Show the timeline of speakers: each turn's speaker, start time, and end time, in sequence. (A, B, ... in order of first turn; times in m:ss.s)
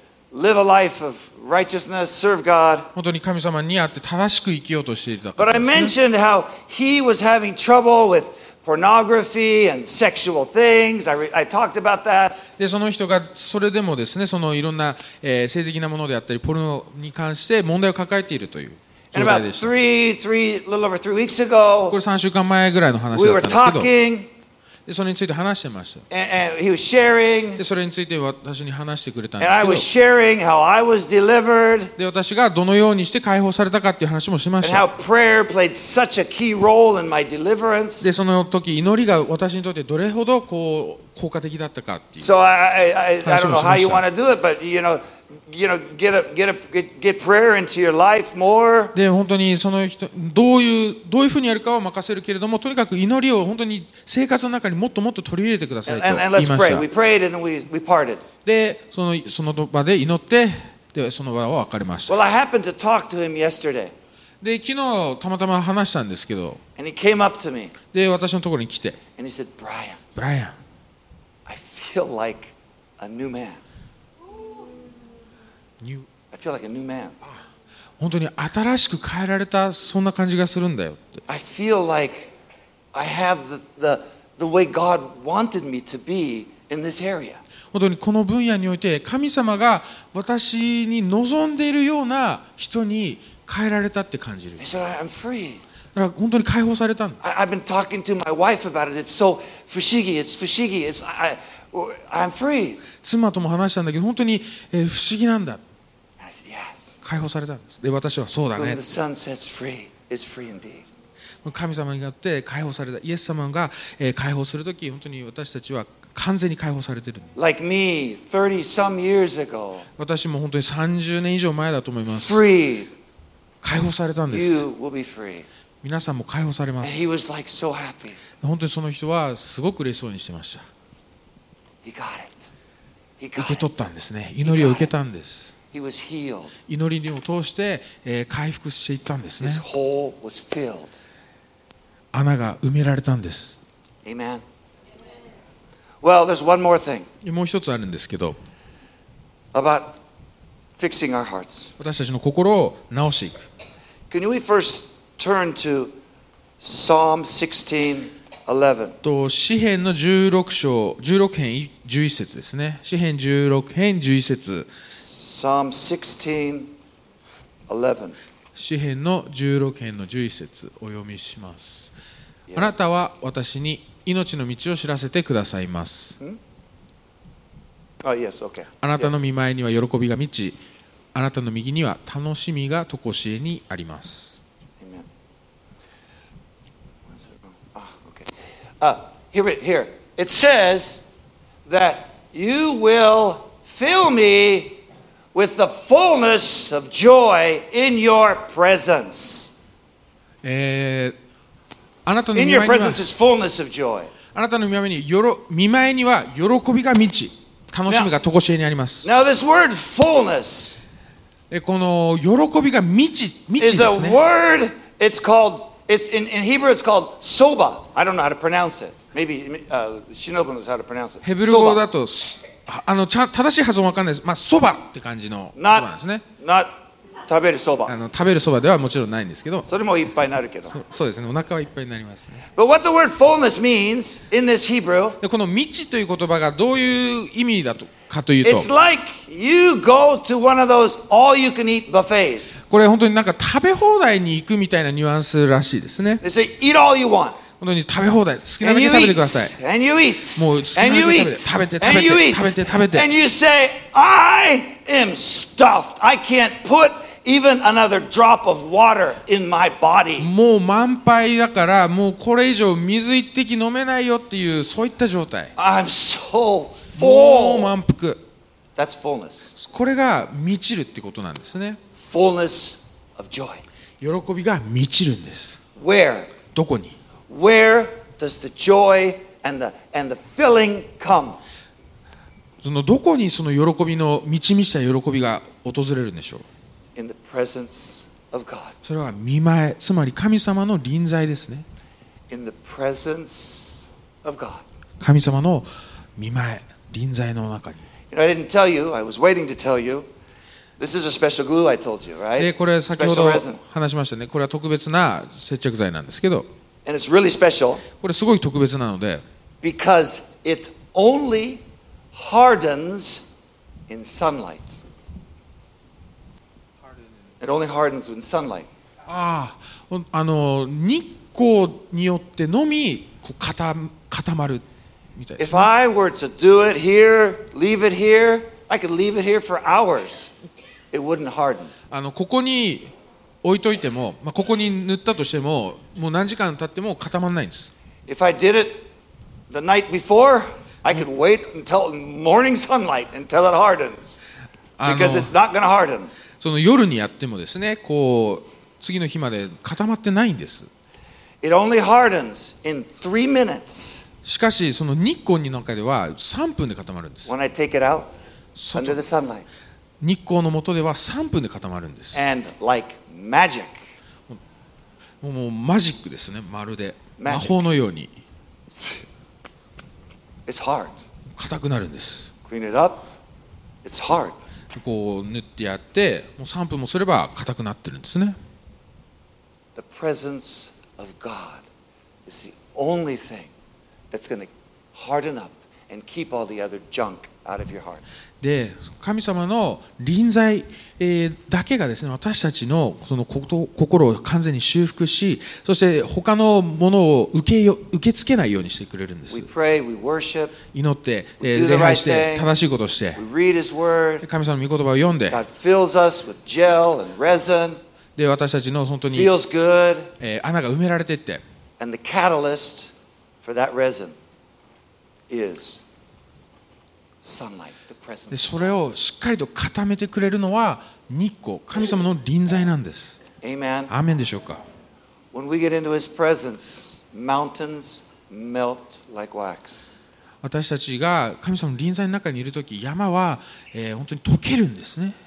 0:00.3-0:02.9 A
0:02.9-0:06.0 B
0:05.4-0:12.4 A
0:12.6-0:19.7 B
0:19.1-0:22.0 A
0:21.9-0:23.9 B
0:23.1-0:24.3 A
0:24.9-0:26.0 B
0:26.1-0:27.6 A
0:27.6-0:29.9 B
0:29.4-0:31.9 A
0:32.0-0:34.9 B
0:34.6-0:38.1 A
0:38.0-0:42.3 B
0:42.2-0:48.9 A
0:43.2-0:44.0 B
0:48.9-0:56.9 B
0:55.9-0:58.2 A
0:58.4-1:02.2 B
1:02.1-1:03.9 A
1:04.4-1:06.6 B
1:06.8-1:07.7 A
1:07.9-1:09.0 B
1:09.2-1:10.0 A
1:10.2-1:10.6 B
1:11.5-1:13.6 A
1:15.8-1:16.1 B
1:16.3-1:17.2 A
1:18.0-1:21.2 B
1:21.3-1:22.3 A
1:22.9-1:27.4 A
1:27.7-1:34.6 B
1:34.6-1:35.6 A
1:35.9-1:37.2 B
1:37.2-1:42.8 A
1:43.0-1:45.6 B
1:46.2-1:46.9 A
1:47.0-1:48.8 B
1:48.6-1:50.9 A
1:51.4-1:57.3 B
1:57.4-1:59.9 A
2:00.0-2:02.4 B
2:02.1-2:02.9 A
2:03.6-2:04.6 B
2:04.3-2:05.4 A
2:05.8-2:07.1 B
2:06.8-2:08.2 A
2:08.4-2:10.6 B
2:11.8-2:12.4 A
2:13.2-2:13.9 A
2:13.4-2:15.5 B
2:14.4-2:14.9 A
2:15.7-2:16.5 A
2:16.7-2:19.6 B
2:19.4-2:20.9 A
2:22.1-2:23.6 B
2:24.0-2:24.4 A
2:26.0-2:27.1 A
2:27.2-2:28.4 B
2:29.5-2:30.0 A
2:30.8-2:31.7 A
2:31.8-2:33.5 B
2:34.1-2:35.9 A
2:36.6-2:39.0 A
2:39.0-2:44.7 B
2:44.9-2:46.7 A
2:47.7-2:48.2 A
2:48.6-2:51.9 B
2:52.5-2:52.8 A
2:52.6-2:56.2 B
2:58.0-2:59.2 A
2:58.8-3:00.6 B
3:01.1-3:04.4 B
3:04.8-3:05.1 A
3:07.2-3:08.3 A
3:08.8-3:11.0 A
3:11.6-3:14.8 A
3:15.3-3:19.5 A
3:20.4-3:21.1 B
3:22.1-3:23.0 B
3:22.4-3:24.1 A
3:24.3-3:29.1 B
3:29.0-3:30.8 A
3:31.5-3:34.2 B
3:33.6-3:41.8 A
3:41.2-3:46.2 B
3:45.6-3:46.7 A
3:47.3-3:48.0 A
3:47.9-3:49.7 B
3:49.7-3:50.8 A
3:50.7-3:52.4 B
3:52.6-3:55.2 A
3:55.2-3:58.7 B
3:58.4-4:02.6 A
4:02.7-4:06.2 B
4:06.2-4:07.4 A
4:07.6-4:09.6 B
4:08.6-4:20.3 A
4:10.4-4:13.1 B
4:20.2-4:25.5 B
4:25.6-4:27.7 A
4:26.9-4:28.2 B
4:28.8-4:29.5 A
4:29.6-4:31.8 B
4:32.0-4:33.6 A
4:34.0-4:35.6 B
4:35.8-4:36.3 A
4:36.5-4:37.0 B
4:37.3-4:41.4 A
4:42.6-4:46.4 B
4:47.0-4:48.8 A
4:48.8-4:51.6 B
4:52.3-4:54.6 A
4:55.0-4:57.8 B
4:58.1-5:00.1 A
5:00.8-5:03.6 A
5:02.4-5:06.5 B
5:06.9-5:07.8 A
5:08.0-5:09.2 B
5:09.6-5:13.3 A
5:13.9-5:14.6 A
5:17.4-5:18.7 A
5:19.1-5:24.6 B
5:25.1-5:25.7 B
5:25.4-5:30.3 A
5:30.9-5:31.7 A
5:31.9-5:32.9 B
5:33.4-5:37.7 B
5:38.1-5:38.8 A
5:39.5-5:44.2 A
5:44.8-5:45.3 B
5:44.8-5:46.1 A
5:46.4-5:50.7 B
5:51.4-5:54.1 A
5:54.2-5:57.3 B
5:57.3-5:58.1 A
5:58.6-5:59.0 B
5:58.7-5:59.4 A
6:00.0-6:02.2 B
6:02.1-6:03.8 A
6:05.2-6:08.1 B
6:07.2-6:07.6 A
6:08.7-6:09.1 A
6:10.5-6:10.9 A
6:11.4-6:12.3 B
6:12.4-6:13.1 A
6:13.8-6:14.4 A
6:14.7-6:18.4 B
6:19.8-6:21.6 A
6:22.3-6:23.5 A
6:24.1-6:28.0 A
6:28.4-6:39.5 B
6:39.3-6:40.6 A
6:40.7-6:43.2 B
6:41.4-6:42.5 A
6:43.1-6:44.2 A
6:44.2-6:45.4 B
6:45.3-6:47.8 A
6:48.2-6:49.3 B
6:49.1-6:50.1 A
6:50.2-6:51.4 B
6:51.8-6:52.9 A
6:53.4-6:54.2 A
6:55.3-6:55.8 A
6:57.2-6:58.6 A
6:58.3-7:03.2 B
7:03.4-7:03.9 A
7:03.9-7:04.6 B
7:05.3-7:09.9 A
7:10.4-7:15.2 B